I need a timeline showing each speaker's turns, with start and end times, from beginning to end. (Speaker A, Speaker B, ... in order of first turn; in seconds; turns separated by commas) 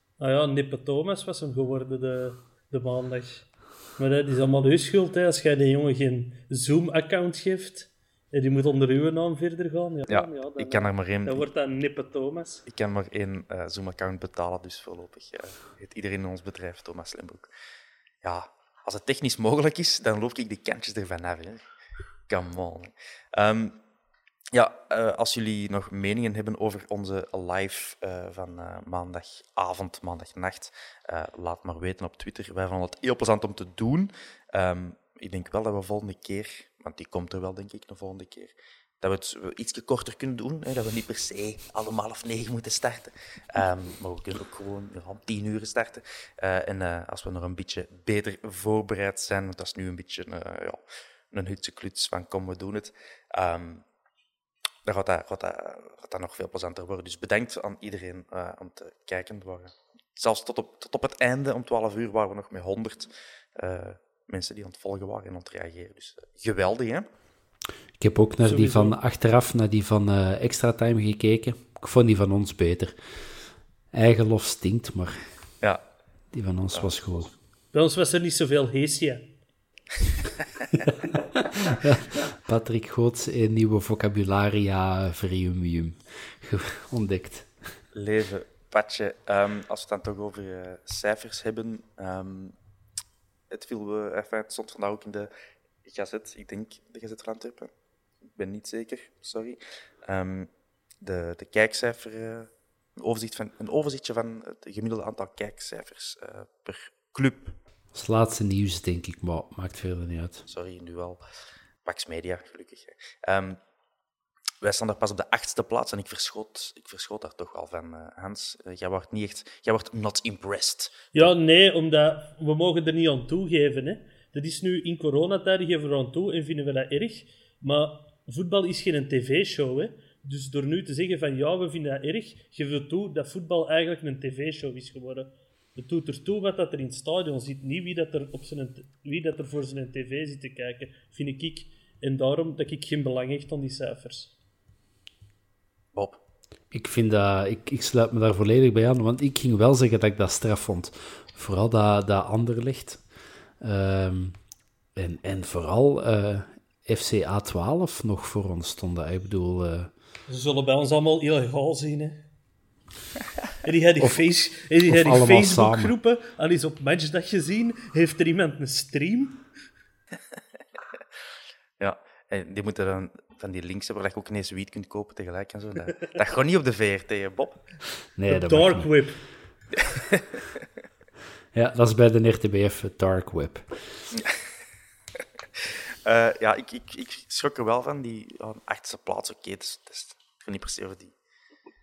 Speaker A: 0.2-12.6, Speaker B: 10.1-11.5, Speaker B: 12.7-17.5, Speaker B: 18.2-21.6, Speaker B: 22.3-23.8, Speaker B: 24.5-53.8, Speaker B: 54.8-67.1, Speaker C: 68.0-73.0, Speaker A: 68.4-69.0, Speaker C: 73.9-75.2, Speaker C: 76.3-77.3, Speaker A: 77.7-79.2, Speaker C: 81.7-87.8, Speaker B: 87.9-92.5, Speaker B: 93.5-95.3, Speaker B: 95.8-97.7, Speaker B: 98.3-100.5, Speaker B: 101.0-107.5, Speaker C: 107.9-110.4, Speaker B: 110.5-111.2, Speaker B: 111.8-113.6, Speaker B: 114.6-121.3, Speaker A: 121.1-144.3, Speaker B: 145.9-146.2, Speaker C: 146.7-153.0, Speaker C: 153.6-154.4, Speaker C: 154.9-159.9, Speaker A: 160.3-162.2, Speaker A: 163.6-169.4, Speaker C: 164.0-164.2, Speaker C: 164.8-166.0, Speaker B: 171.8-177.6, Speaker C: 178.1-179.0, Speaker A: 178.3-179.2, Speaker B: 179.7-180.4, Speaker C: 181.5-184.1, Speaker B: 184.1-184.4, Speaker B: 185.6-191.1